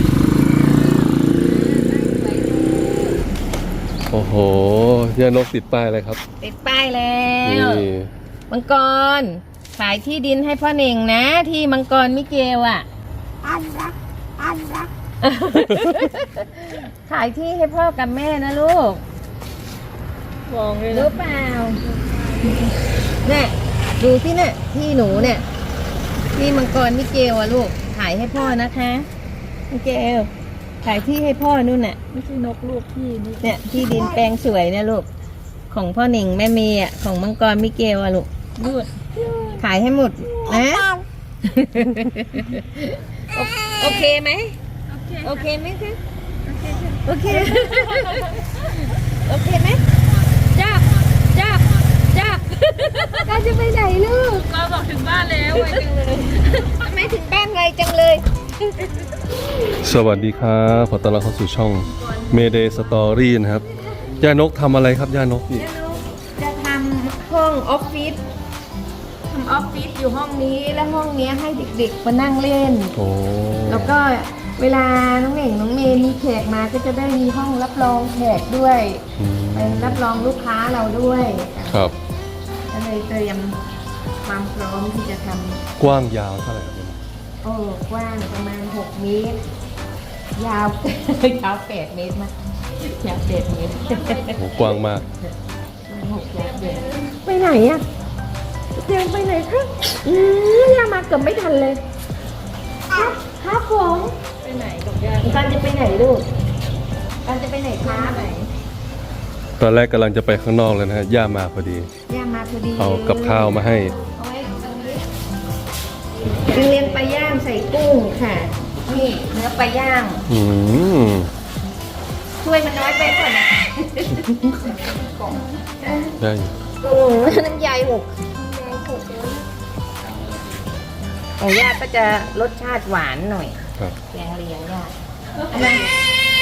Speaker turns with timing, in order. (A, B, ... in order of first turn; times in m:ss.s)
0:01.0-0:03.2 A
0:04.1-0:06.2 B
0:06.4-0:07.9 A
0:07.4-0:08.1 B
0:08.5-0:12.8 A
0:13.4-0:19.0 A
0:20.5-0:21.2 C
0:20.9-0:21.8 A
0:21.8-0:22.7 C
0:23.2-0:25.4 A
0:26.3-0:29.0 A
0:29.7-0:30.3 A
0:30.8-0:32.0 A
0:32.1-0:34.1 C
0:33.4-0:35.1 A
0:35.7-0:38.3 A
0:38.6-0:39.6 C
0:39.6-0:40.9 A
0:40.3-0:40.9 C
0:41.5-0:44.6 A
0:44.9-0:45.5 C
0:45.2-0:46.0 A
0:46.4-0:48.6 C
0:47.0-0:49.8 A
0:50.5-0:54.5 A
0:52.6-0:53.2 C
0:54.3-0:56.8 C
0:55.5-0:55.8 A
0:56.6-0:59.0 A
0:59.8-1:03.6 B
1:04.2-1:05.6 B
1:05.5-1:08.2 A
1:09.3-1:12.9 A
1:13.0-1:14.0 B
1:13.7-1:19.0 A
1:19.2-1:20.0 B
1:19.5-1:21.8 A
1:21.7-1:21.9 B
1:22.7-1:23.6 A
1:24.2-1:25.6 A
1:25.8-1:27.0 B
1:27.4-1:29.4 A
1:30.4-1:32.3 A
1:32.8-1:34.4 A
1:33.8-1:34.7 C
1:34.4-1:35.0 B
1:35.9-1:37.8 A
1:36.3-1:37.1 C
1:38.7-1:41.8 A
1:42.9-1:44.2 A
1:44.4-1:45.6 C
1:45.2-1:46.2 A
1:47.2-1:48.5 A
1:47.9-1:48.3 C
1:49.6-1:51.9 B
1:52.1-1:55.0 A
1:52.8-1:53.9 B
1:56.3-1:57.0 C
1:56.4-2:00.2 A
2:00.3-2:01.3 B
2:02.4-2:04.7 A
2:05.7-2:06.1 A
2:06.2-2:06.5 B
2:06.8-2:09.3 A
2:11.4-2:13.6 A
2:14.1-2:14.9 A
2:15.5-2:15.8 A